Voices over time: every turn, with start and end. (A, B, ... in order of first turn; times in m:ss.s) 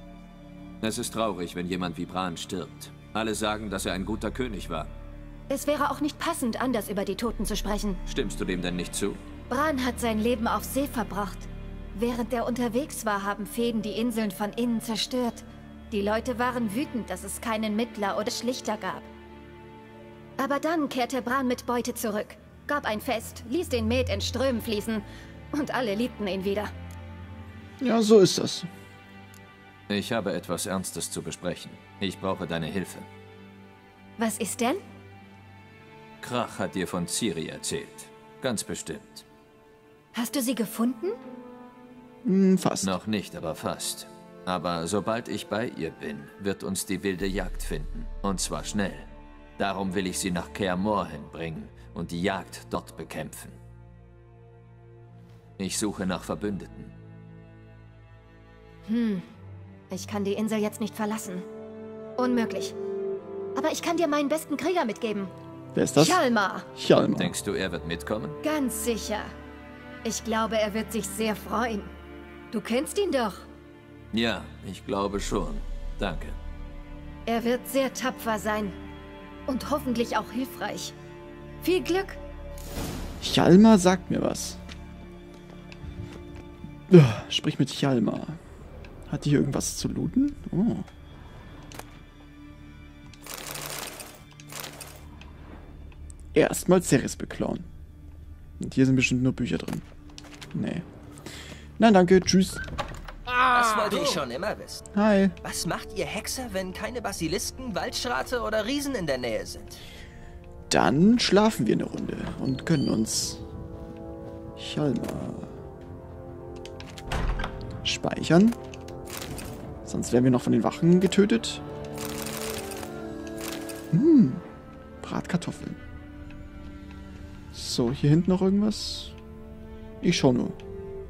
0:00.8-0:04.9 A
0:05.5-0:08.0 B
0:08.1-0:09.2 A
0:09.5-0:19.1 B
0:20.4-0:26.7 B
0:27.8-0:28.7 C
0:29.9-0:33.1 A
0:34.2-0:34.8 B
0:36.2-0:39.2 A
0:40.1-0:41.2 B
0:42.2-0:42.9 C
0:42.8-0:49.1 A
0:49.6-0:53.6 A
0:55.6-0:56.9 A
0:58.9-0:59.2 B
0:59.9-1:01.5 B
1:02.2-1:02.8 B
1:03.5-1:05.3 B
1:05.8-1:06.2 C
1:06.0-1:06.7 B
1:06.7-1:07.3 C
1:07.0-1:08.4 A
1:08.4-1:09.3 B
1:10.0-1:11.9 B
1:12.5-1:13.5 B
1:14.1-1:16.4 A
1:17.3-1:18.8 B
1:19.5-1:21.0 B
1:21.6-1:22.2 B
1:23.2-1:24.6 C
1:26.9-1:28.4 C
1:29.1-1:30.9 C
1:36.3-1:37.7 C
1:38.6-1:39.9 C
1:40.5-1:40.8 C
1:41.8-1:42.6 C
1:43.5-1:44.8 D
1:44.9-1:45.4 C
1:45.4-1:49.8 D
1:50.7-1:53.4 C
1:54.6-1:55.5 C
1:57.8-1:58.6 C
1:59.8-2:01.6 C
2:03.9-2:04.4 C
2:05.0-2:05.8 C
2:07.5-2:09.2 C
2:10.0-2:10.6 C